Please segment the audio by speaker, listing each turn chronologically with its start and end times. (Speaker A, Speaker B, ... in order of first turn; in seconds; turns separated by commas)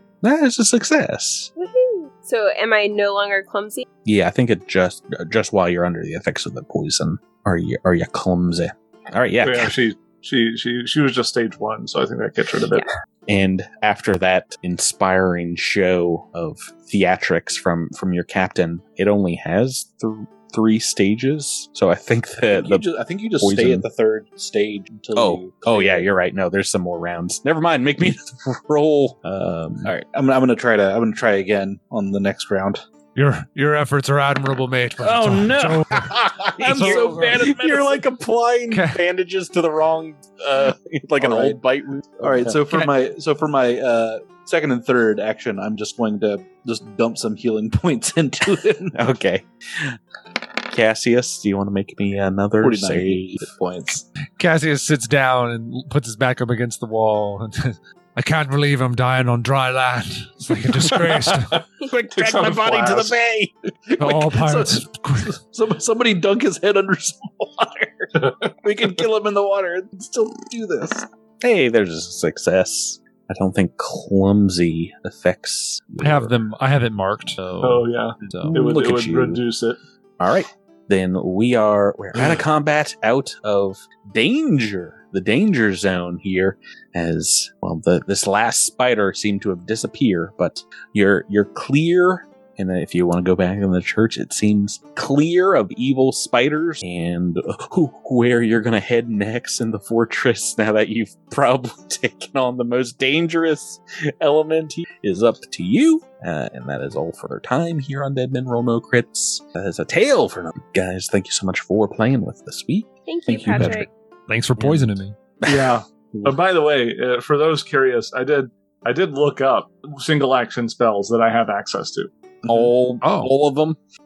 Speaker A: 0.2-1.5, Speaker B: 1.6-3.9, Speaker A: 4.0-9.7, Speaker C: 9.4-12.9, Speaker A: 13.3-22.8, Speaker D: 22.4-26.1, Speaker A: 23.4-23.8, Speaker A: 25.1-29.9, Speaker D: 29.8-32.8, Speaker E: 33.1-36.2, Speaker D: 35.0-38.0, Speaker A: 35.5-42.6, Speaker E: 36.7-37.5, Speaker E: 38.7-39.0, Speaker D: 41.2-41.6, Speaker D: 42.2-49.0, Speaker E: 42.7-42.9, Speaker A: 48.9-50.0, Speaker A: 50.7-53.3, Speaker D: 52.6-54.0, Speaker E: 54.4-61.6, Speaker C: 61.3-61.6, Speaker A: 61.8-63.5, Speaker C: 62.2-63.1, Speaker D: 63.9-71.1, Speaker E: 64.0-65.4, Speaker C: 68.2-68.5, Speaker A: 71.4-76.3, Speaker E: 76.0-78.6, Speaker C: 77.6-79.8, Speaker A: 78.5-79.4, Speaker A: 80.2-113.8, Speaker B: 113.1-113.9, Speaker E: 113.5-115.1, Speaker A: 114.6-116.4, Speaker C: 115.5-122.1, Speaker A: 122.4-123.8, Speaker E: 123.0-123.3